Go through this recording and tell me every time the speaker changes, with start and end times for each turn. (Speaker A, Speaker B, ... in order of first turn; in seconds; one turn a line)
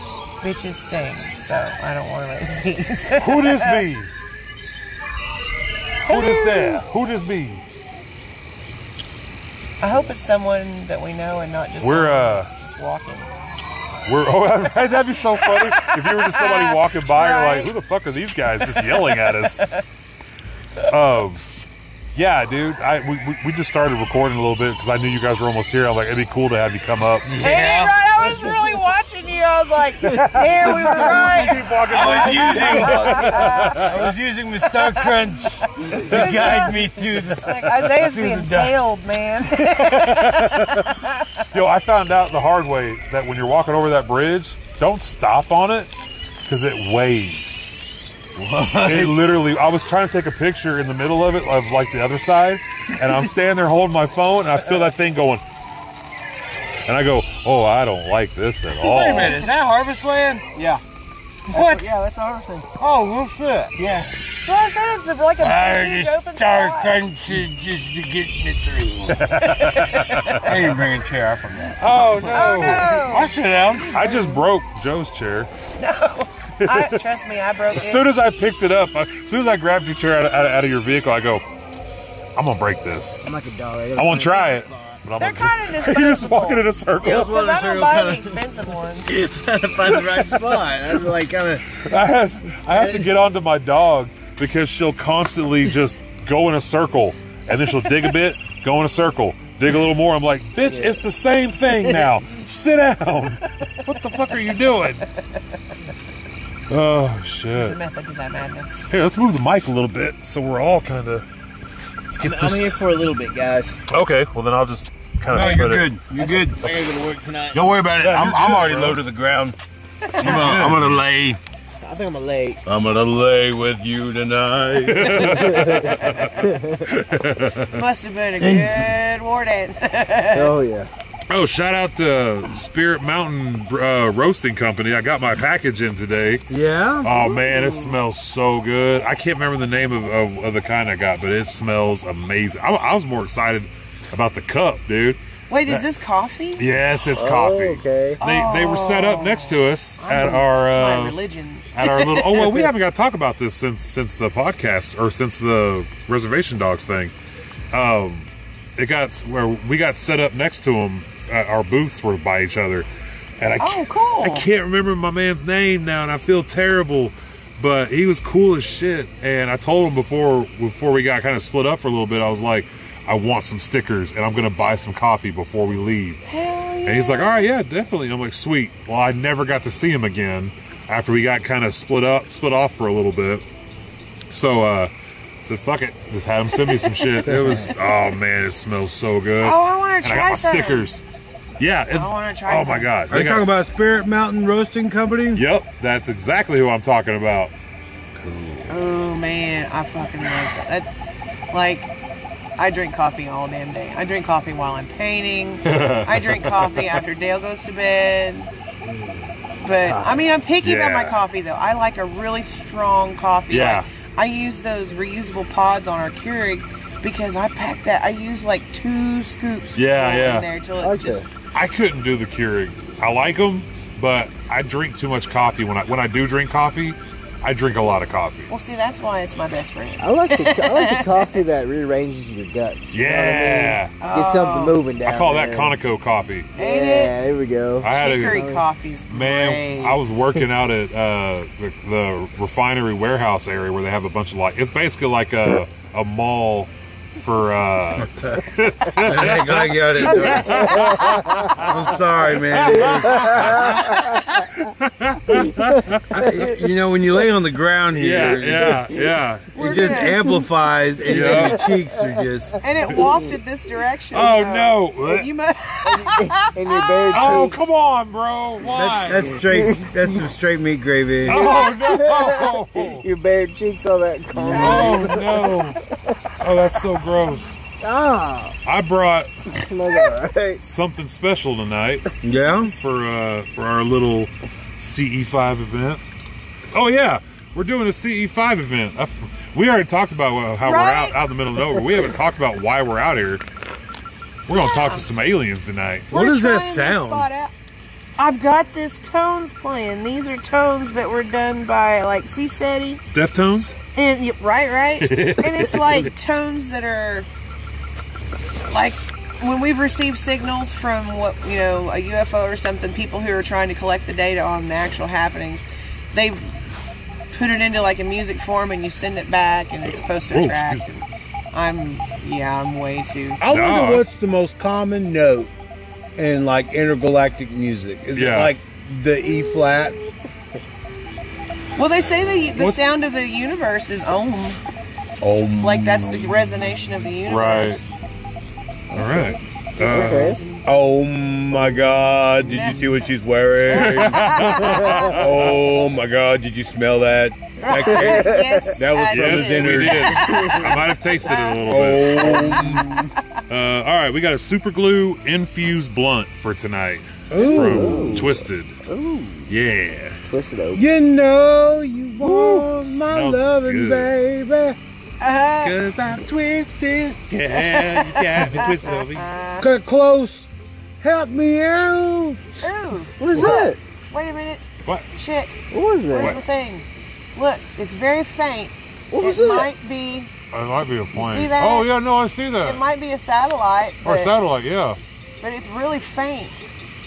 Speaker A: 0.4-3.8
Speaker B: 3.2-4.1
Speaker A: 6.1-6.8
Speaker B: 6.1-7.6
Speaker A: 9.8-13.3
Speaker B: 11.8-12.5
Speaker B: 14.1-19.7
Speaker A: 15.4-17.7
Speaker A: 18.6-19.8
Speaker B: 20.8-21.4
Speaker B: 22.1-27.3
Speaker C: 27.2-28.5
Speaker A: 27.4-33.8
Speaker B: 30.6-34.1
Speaker C: 30.7-38.8
Speaker A: 34.8-35.2
Speaker A: 35.9-41.4
Speaker B: 36.1-36.4
Speaker B: 39.6-40.9
Speaker B: 41.5-45.9
Speaker B: 46.5-47.7
Speaker C: 48.4-49.2
Speaker B: 48.8-55.4
Speaker B: 56.9-59.5
Speaker C: 58.8-60.8
Speaker D: 61.5-62.8
Speaker C: 61.5-61.9
Speaker C: 62.8-63.8
Speaker D: 63.8-64.1
Speaker A: 64.4-67.0
Speaker C: 65.4-69.3
Speaker B: 69.1-70.8
Speaker A: 69.4-70.5
Speaker C: 70.3-73.9
Speaker B: 71.8-73.0
Speaker A: 72.2-74.4
Speaker B: 73.9-75.5
Speaker A: 75.8-78.1
Speaker B: 76.6-77.0
Speaker B: 77.8-81.4
Speaker B: 82.4-83.2
Speaker D: 83.2-85.0
Speaker B: 84.0-87.3
Speaker A: 85.2-89.2
Speaker D: 87.0-88.4
Speaker C: 87.0-88.2
Speaker D: 89.1-91.6
Speaker B: 91.7-105.0
Speaker D: 92.7-93.1
Speaker D: 100.7-101.0
Speaker B: 106.7-107.8
Speaker A: 107.5-108.9
Speaker B: 108.9-111.2
Speaker B: 112.1-112.8
Speaker D: 112.2-113.8
Speaker B: 113.9-115.9
Speaker C: 115.3-116.6
Speaker D: 116.2-117.7
Speaker C: 117.5-119.6
Speaker B: 118.0-119.0
Speaker A: 120.0-120.5
Speaker C: 120.2-121.4
Speaker B: 120.2-121.0
Speaker D: 121.8-122.6
Speaker C: 122.7-125.8
Speaker B: 124.8-127.8
Speaker D: 125.6-126.8
Speaker A: 127.7-130.6
Speaker C: 128.4-128.9
Speaker D: 130.3-130.9
Speaker B: 131.3-136.4
Speaker C: 136.5-137.1
Speaker B: 137.0-145.8
Speaker A: 137.3-137.6
Speaker A: 145.5-146.6
Speaker B: 146.6-151.2
Speaker D: 147.1-148.2
Speaker A: 148.2-152.7
Speaker B: 151.8-157.1
Speaker B: 157.7-162.9
Speaker B: 163.4-176.2
Speaker A: 163.6-164.5
Speaker A: 176.2-177.5
Speaker B: 176.9-183.4
Speaker B: 184.3-184.9
Speaker B: 185.4-191.0
Speaker A: 186.6-187.5
Speaker C: 187.3-187.6
Speaker A: 189.4-190.9
Speaker B: 191.6-193.7
Speaker A: 191.9-192.9
Speaker C: 193.1-195.4
Speaker B: 195.3-197.5
Speaker B: 198.2-198.8
Speaker A: 198.7-200.9
Speaker A: 201.5-201.9
Speaker A: 202.6-208.5
Speaker B: 205.7-207.0
Speaker A: 209.6-221.2
Speaker B: 209.9-211.2
Speaker B: 213.5-213.9
Speaker B: 219.8-220.5
Speaker D: 220.8-221.3
Speaker B: 221.5-228.5
Speaker A: 228.5-231.4
Speaker D: 230.0-235.8
Speaker B: 232.9-233.9
Speaker A: 234.0-234.8
Speaker B: 235.0-236.5
Speaker A: 236.6-237.2
Speaker D: 236.6-238.6
Speaker B: 237.8-238.4
Speaker A: 237.9-240.0
Speaker B: 239.1-256.2
Speaker C: 248.8-254.0
Speaker D: 251.0-251.5
Speaker D: 252.9-254.2
Speaker C: 256.1-258.9
Speaker D: 256.1-256.6
Speaker B: 257.9-259.5
Speaker A: 259.6-260.3
Speaker C: 259.6-262.6
Speaker B: 261.1-261.7
Speaker D: 261.2-262.2
Speaker A: 262.6-267.6
Speaker B: 264.1-265.3
Speaker D: 265.9-267.7
Speaker B: 267.1-269.4
Speaker C: 268.7-271.5
Speaker D: 268.8-270.3
Speaker B: 271.2-273.1
Speaker A: 271.3-271.8
Speaker D: 271.3-276.2
Speaker C: 274.4-275.0
Speaker B: 274.5-275.8
Speaker A: 274.6-275.0
Speaker B: 276.4-277.6
Speaker D: 277.8-278.6
Speaker B: 278.6-279.3
Speaker D: 279.5-280.6
Speaker B: 280.6-286.0
Speaker C: 282.2-282.7
Speaker B: 286.7-293.4
Speaker A: 290.6-291.2
Speaker B: 294.5-296.1
Speaker A: 294.5-295.1
Speaker C: 296.1-297.3
Speaker A: 296.1-297.5
Speaker A: 298.2-303.0
Speaker B: 303.1-303.8
Speaker A: 303.9-307.3
Speaker B: 305.0-306.1
Speaker A: 308.7-316.5
Speaker A: 317.3-323.4
Speaker B: 320.3-320.9
Speaker C: 323.4-325.5
Speaker B: 323.5-324.1
Speaker C: 326.2-330.0
Speaker B: 328.1-328.5
Speaker A: 331.8-334.6
Speaker B: 332.6-332.9
Speaker C: 335.2-336.4
Speaker A: 335.6-337.9
Speaker B: 337.3-337.8
Speaker B: 338.9-340.4
Speaker A: 339.8-340.6
Speaker D: 339.8-340.4
Speaker C: 340.6-350.3
Speaker A: 342.4-343.0
Speaker B: 343.6-345.6
Speaker A: 344.0-345.0
Speaker A: 347.6-352.9
Speaker D: 347.9-348.7
Speaker B: 349.1-352.8
Speaker C: 351.6-353.1
Speaker D: 352.4-352.9
Speaker B: 353.5-358.8
Speaker C: 357.3-358.3
Speaker D: 357.4-359.5
Speaker B: 359.5-360.2
Speaker D: 360.2-360.9
Speaker C: 360.7-364.8
Speaker B: 362.2-364.1
Speaker A: 365.2-365.8
Speaker B: 365.6-369.3
Speaker C: 365.8-367.1
Speaker A: 367.5-369.7
Speaker C: 369.6-370.5
Speaker C: 371.0-372.4
Speaker A: 372.6-380.3
Speaker D: 373.2-373.8
Speaker D: 375.7-376.4
Speaker D: 379.1-379.7
Speaker B: 380.5-382.8
Speaker A: 381.1-381.9
Speaker A: 382.6-384.3
Speaker B: 384.0-385.0
Speaker A: 385.4-386.7